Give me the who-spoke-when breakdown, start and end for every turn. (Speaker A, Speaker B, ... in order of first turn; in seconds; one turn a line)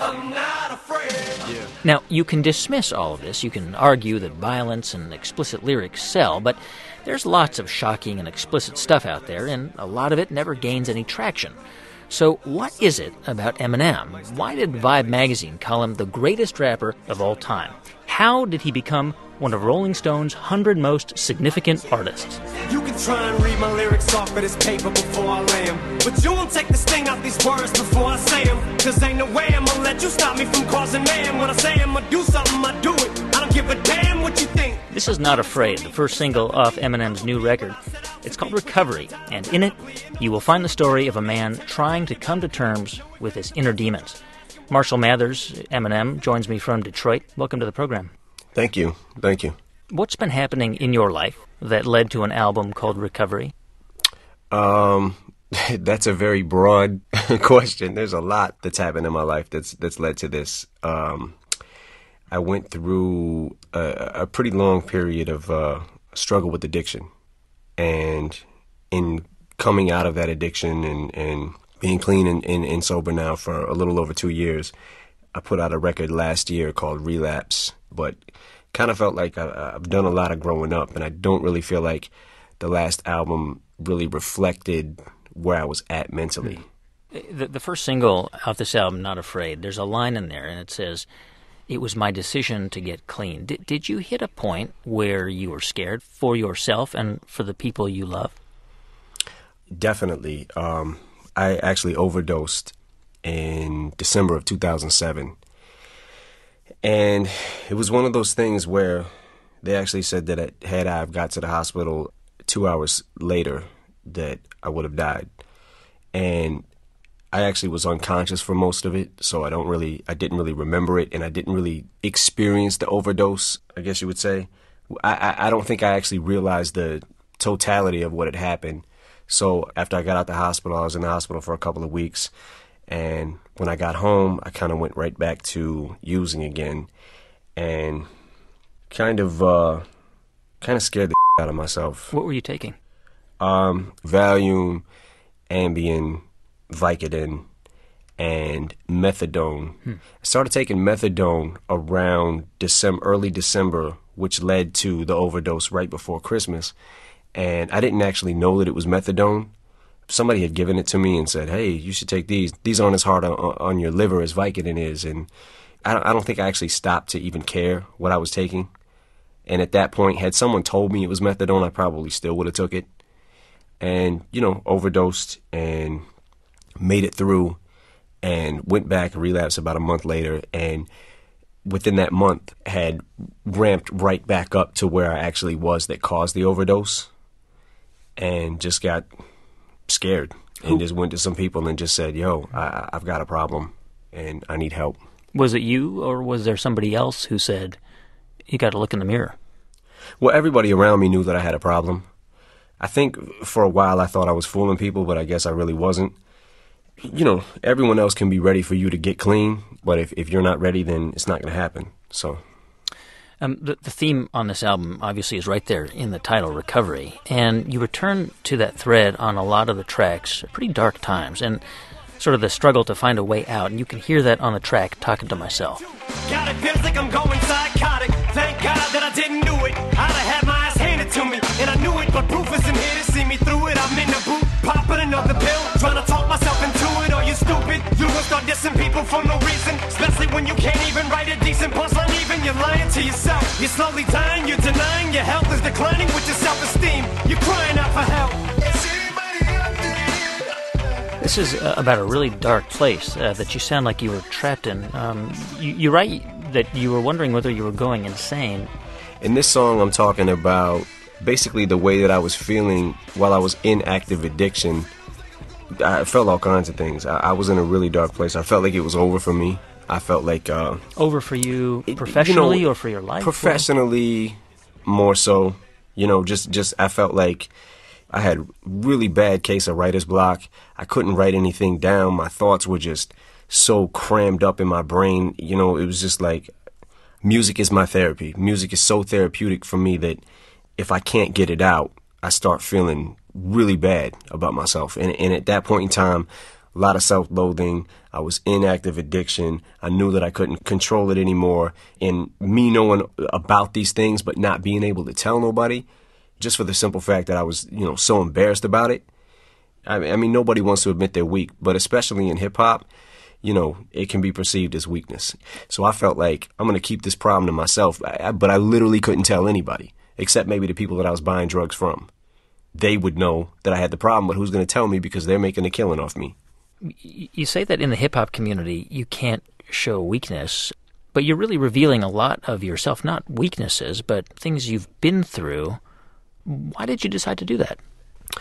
Speaker A: 0.1-1.2
Speaker B: 1.4-1.7
Speaker C: 1.8-11.5
Speaker C: 12.1-22.4
Speaker B: 22.7-24.2
Speaker A: 23.1-34.8
Speaker B: 25.5-26.2
Speaker B: 27.8-29.4
Speaker B: 30.1-30.7
Speaker B: 33.8-34.4
Speaker C: 34.9-48.1
Speaker B: 48.5-49.5
Speaker C: 49.9-53.5
Speaker B: 54.5-61.4
Speaker B: 62.3-67.1
Speaker B: 67.8-74.7
Speaker B: 75.3-78.2
Speaker B: 78.7-86.7
Speaker C: 87.1-91.1
Speaker C: 91.7-98.3
Speaker B: 99.8-105.3
Speaker B: 106.8-109.1
Speaker B: 109.6-115.3
Speaker B: 116.1-116.6
Speaker B: 117.3-132.3
Speaker B: 132.9-136.9
Speaker B: 137.6-138.1
Speaker B: 138.9-139.8
Speaker B: 140.6-142.1
Speaker C: 142.1-142.8
Speaker B: 143.4-144.8
Speaker B: 145.5-147.4
Speaker B: 148.2-156.7
Speaker B: 157.3-159.5
Speaker B: 160.1-165.3
Speaker B: 165.8-168.7
Speaker B: 169.5-172.9
Speaker B: 173.8-176.0
Speaker B: 176.8-177.6
Speaker B: 178.2-180.9
Speaker B: 181.6-187.1
Speaker B: 188.2-189.1
Speaker B: 189.9-195.0
Speaker C: 195.3-197.8
Speaker C: 198.5-199.3
Speaker B: 200.2-202.1
Speaker B: 202.8-206.2
Speaker B: 207.0-212.4
Speaker C: 213.4-221.6
Speaker C: 222.2-225.8
Speaker A: 226.4-227.3
Speaker B: 227.3-231.4
Speaker A: 228.0-232.6
Speaker B: 232.1-248.5
Speaker A: 234.4-234.9
Speaker A: 247.2-247.9
Speaker C: 251.2-258.7
Speaker B: 259.2-264.9
Speaker B: 265.8-270.8
Speaker C: 270.9-273.6
Speaker B: 271.9-272.6
Speaker B: 273.2-277.5
Speaker B: 278.1-286.5
Speaker B: 287.2-290.2
Speaker B: 290.8-305.9
Speaker B: 306.4-309.1
Speaker B: 309.9-312.9
Speaker B: 313.4-322.1
Speaker B: 322.8-326.3
Speaker C: 326.8-335.8
Speaker C: 336.4-337.8